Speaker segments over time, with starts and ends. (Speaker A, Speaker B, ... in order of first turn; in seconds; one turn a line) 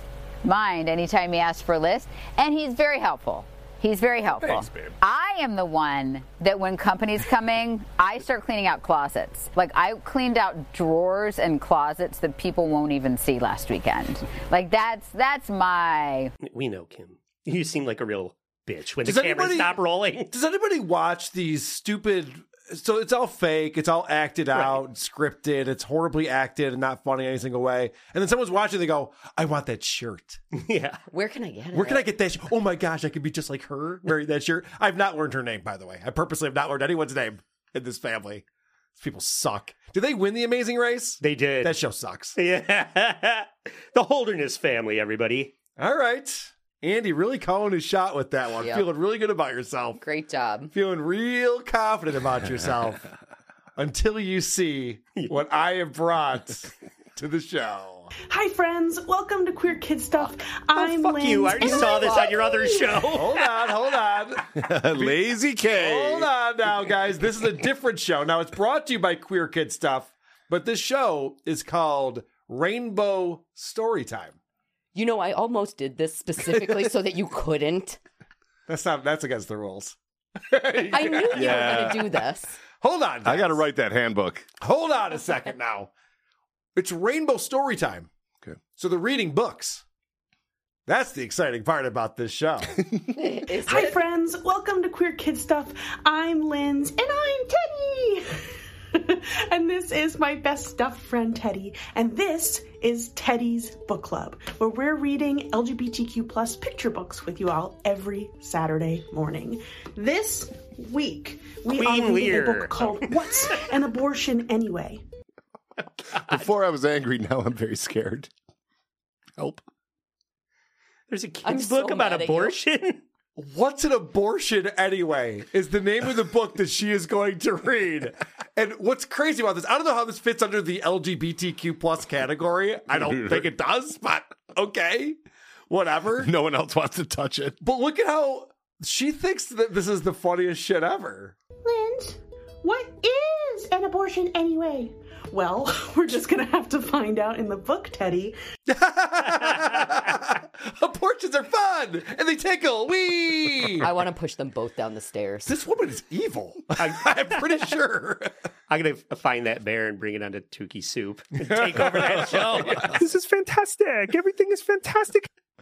Speaker A: 0.4-16.3
Speaker B: 16.4-20.3
Speaker C: 19.0-19.8
Speaker C: 20.3-30.4
Speaker B: 24.5-24.8
Speaker B: 30.5-31.0
Speaker D: 31.1-32.1
Speaker C: 31.7-38.4
Speaker C: 39.0-42.4
Speaker B: 41.2-41.8
Speaker B: 42.4-45.5
Speaker C: 45.8-50.0
Speaker D: 48.6-48.9
Speaker D: 50.0-50.7
Speaker C: 50.7-53.0
Speaker C: 53.8-58.1
Speaker E: 58.2-62.9
Speaker B: 60.8-63.4
Speaker D: 61.6-62.3
Speaker C: 63.1-65.2
Speaker F: 64.5-66.3
Speaker C: 65.7-74.4
Speaker D: 75.0-78.0
Speaker C: 78.7-81.8
Speaker D: 80.9-82.6
Speaker F: 81.3-82.1
Speaker C: 82.8-83.6
Speaker F: 83.3-84.5
Speaker C: 84.6-85.9
Speaker C: 86.8-88.1
Speaker C: 88.8-89.8
Speaker C: 90.9-92.8
Speaker D: 93.1-94.0
Speaker E: 93.7-115.0
Speaker B: 111.8-113.1
Speaker F: 116.1-118.3
Speaker F: 119.4-119.6
Speaker B: 121.1-123.0
Speaker D: 121.4-122.6
Speaker C: 123.4-135.2
Speaker C: 135.7-136.3
Speaker F: 136.2-137.6
Speaker C: 137.6-141.3
Speaker E: 141.6-148.4
Speaker C: 148.7-153.9
Speaker D: 153.8-155.5
Speaker C: 155.5-158.3
Speaker B: 156.8-157.2
Speaker B: 158.7-162.9
Speaker C: 161.4-163.0
Speaker G: 163.0-165.3